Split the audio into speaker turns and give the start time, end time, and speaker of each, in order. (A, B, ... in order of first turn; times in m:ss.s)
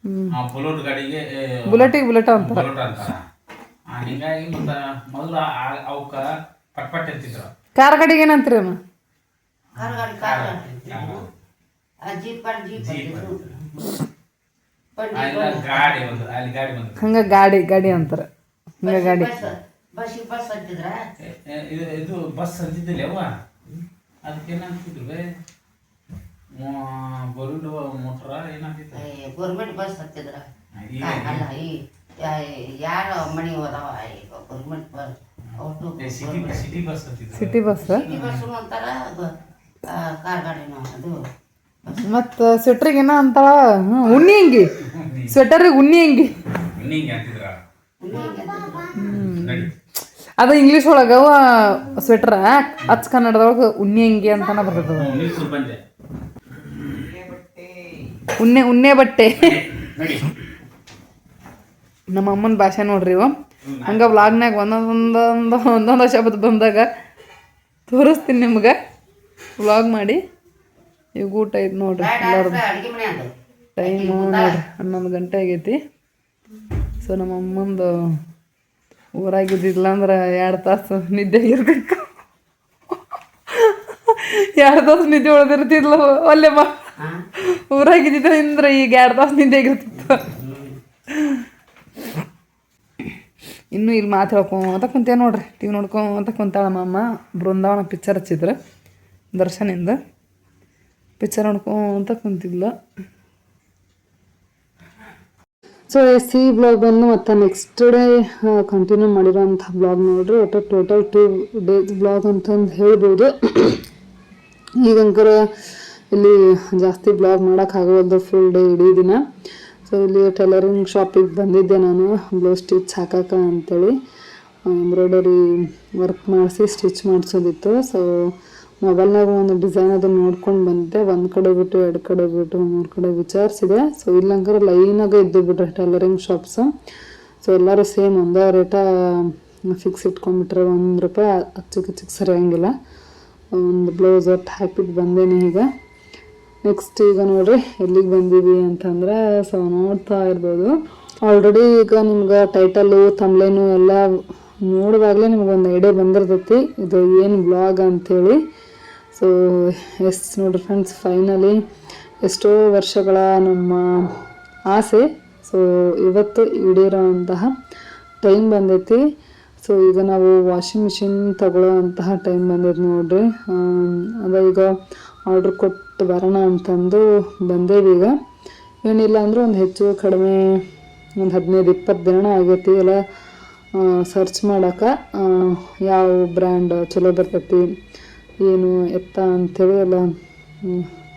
0:00.3-0:03.2 A
0:01.7-0:02.6 B
0:03.9-0:07.5 A
0:07.8-0:08.8 B
0:09.8-0:11.3 A
0:09.8-0:11.3 C
0:12.0-0:13.9 C
0:12.8-0:13.4 A
0:15.0-0:16.2 C
0:15.1-0:17.3 A
0:17.0-0:18.2 B
0:18.8-0:19.3 B
0:18.8-0:21.0 C
0:21.2-0:23.3 A
0:24.2-0:25.2 A
0:26.6-0:29.0 A
0:28.9-0:30.5 C
0:30.8-0:31.5 A
0:31.0-0:36.8 C
0:36.0-0:38.5 A
0:37.4-0:38.0 B
0:37.8-0:39.3 C
0:39.9-0:41.2 C
0:41.8-0:42.1 C
0:42.0-0:44.7 B
0:44.8-0:45.4 A
0:45.3-0:46.4 B
0:46.8-0:47.6 A
0:48.0-0:48.9 C
0:49.0-0:49.7 B
0:49.1-0:49.7 A
0:50.4-0:55.1 B
0:54.8-0:55.8 A
0:58.4-0:59.6 B
0:59.4-1:00.4 A
1:02.1-1:03.3 B
1:03.6-1:04.2 A
1:03.8-1:06.9 B
1:07.9-1:08.8 B
1:09.6-1:10.2 B
1:11.2-1:12.6 B
1:12.0-1:14.6 C
1:13.8-1:15.8 B
1:17.0-1:18.0 B
1:19.2-1:22.0 B
1:23.5-1:26.7 B
1:27.4-1:30.3 B
1:30.1-1:30.8 C
1:31.1-1:31.4 B
1:33.7-1:38.6 B
1:39.3-1:40.0 B
1:41.2-1:42.7 B
1:45.9-1:53.8 D
1:54.8-1:55.4 D
1:56.1-1:59.2 D
1:59.9-2:03.9 D
2:04.7-2:05.4 D
2:06.0-2:16.7 D
2:17.4-2:22.7 D
2:23.5-2:25.7 D
2:26.6-2:30.7 D
2:31.2-2:38.4 D
2:39.1-2:41.6 D
2:42.2-2:44.1 D
2:44.7-2:47.5 D
2:48.2-2:49.0 D
2:49.6-2:54.7 D
2:55.3-2:58.1 D
2:58.8-3:00.6 D
3:01.2-3:03.0 D
3:03.8-3:07.6 D
3:08.4-3:10.1 D